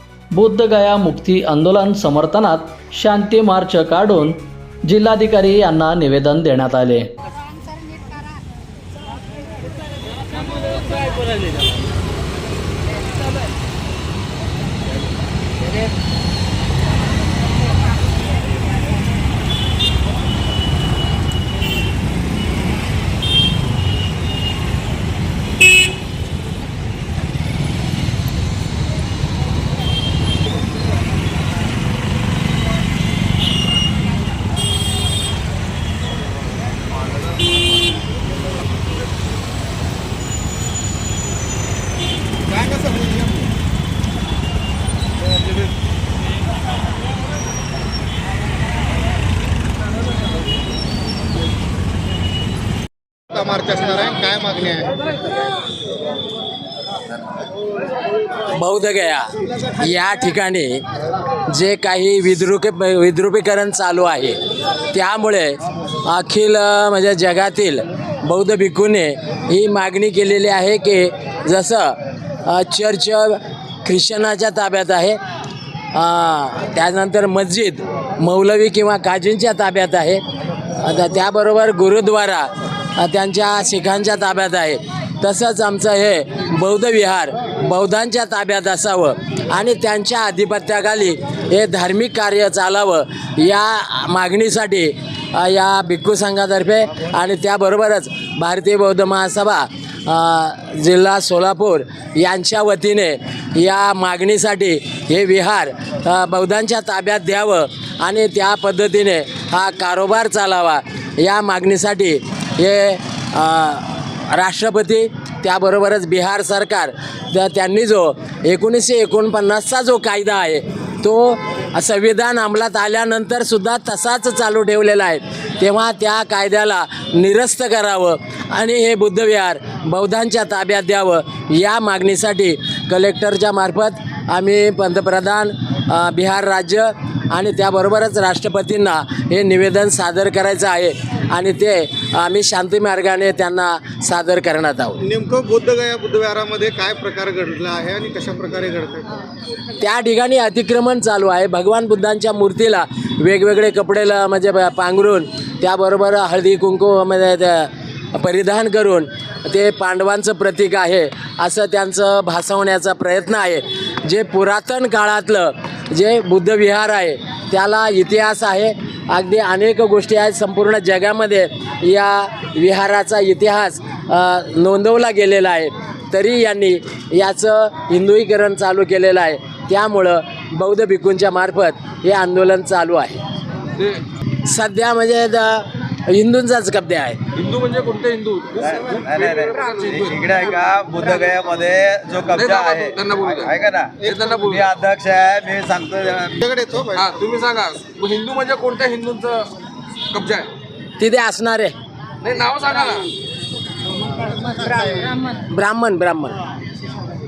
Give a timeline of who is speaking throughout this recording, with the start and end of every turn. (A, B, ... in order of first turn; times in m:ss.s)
0:00.3-0:07.1 A
0:42.8-0:43.2 B
0:53.3-0:54.9 B
0:58.5-1:00.8 C
1:01.5-1:04.4 C
1:04.9-1:15.2 C
1:15.9-1:20.2 C
1:20.8-2:25.0 C
2:25.0-2:29.1 B
2:29.8-3:03.2 C
3:04.4-3:07.2 C
3:07.3-3:10.2 D
3:08.6-3:16.4 E
3:12.3-3:14.6 D
3:14.0-3:14.3 B
3:16.4-3:17.1 B
3:17.0-3:19.5 D
3:20.1-3:20.5 D
3:21.0-3:21.7 C
3:22.2-3:23.1 D
3:25.4-3:26.4 C